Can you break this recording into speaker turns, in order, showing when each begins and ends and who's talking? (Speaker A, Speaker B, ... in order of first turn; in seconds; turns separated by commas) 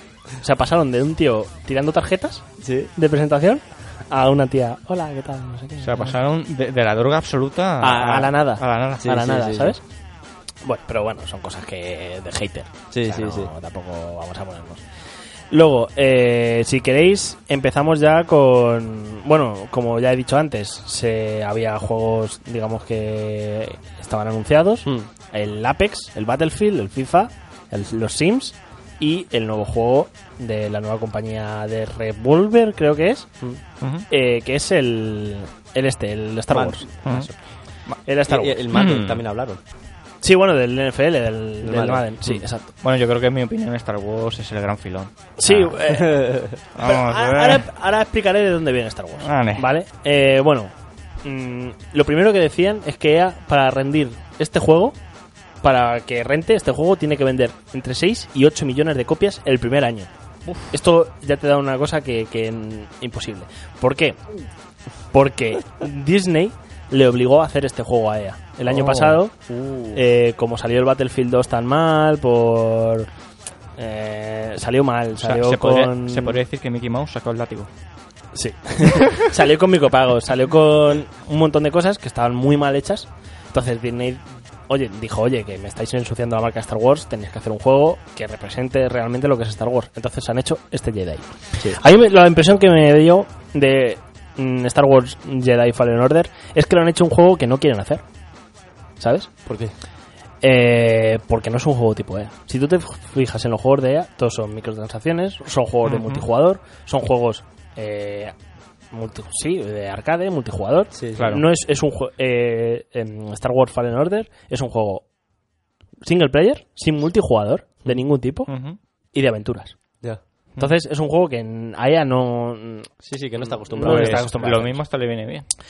Speaker A: 0.4-2.5, Speaker B: 2.6-2.9, Speaker A: 3.0-6.1, Speaker C: 5.8-9.1, Speaker A: 7.8-9.8, Speaker B: 9.0-9.8, Speaker A: 10.6-14.8, Speaker B: 12.9-13.5, Speaker A: 15.5-33.3, Speaker C: 33.8-34.1, Speaker A: 34.1-36.9, Speaker B: 36.5-37.4, Speaker C: 37.0-37.3, Speaker A: 38.1-38.6, Speaker B: 38.3-39.6, Speaker C: 38.7-39.2, Speaker A: 40.2-42.7, Speaker B: 41.6-42.1, Speaker C: 42.8-45.8, Speaker A: 45.4-46.2, Speaker B: 46.0-46.6, Speaker C: 46.8-47.6, Speaker A: 46.8-55.0, Speaker C: 49.2-49.7, Speaker A: 55.6-60.1, Speaker A: 60.7-64.2, Speaker A: 65.1-69.3, Speaker C: 68.7-69.9, Speaker A: 69.9-73.1, Speaker A: 73.8-76.4, Speaker C: 75.2-77.7, Speaker A: 78.3-98.0, Speaker C: 78.9-79.2, Speaker A: 99.0-99.3, Speaker B: 99.5-99.7, Speaker A: 100.4-108.3, Speaker C: 105.8-106.2, Speaker A: 108.9-115.1, Speaker B: 111.0-111.3, Speaker C: 111.2-111.5, Speaker A: 116.0-118.5, Speaker C: 118.5-118.8, Speaker A: 119.1-119.8, Speaker A: 120.6-122.9, Speaker B: 123.0-124.5, Speaker A: 123.7-124.8, Speaker C: 123.8-125.5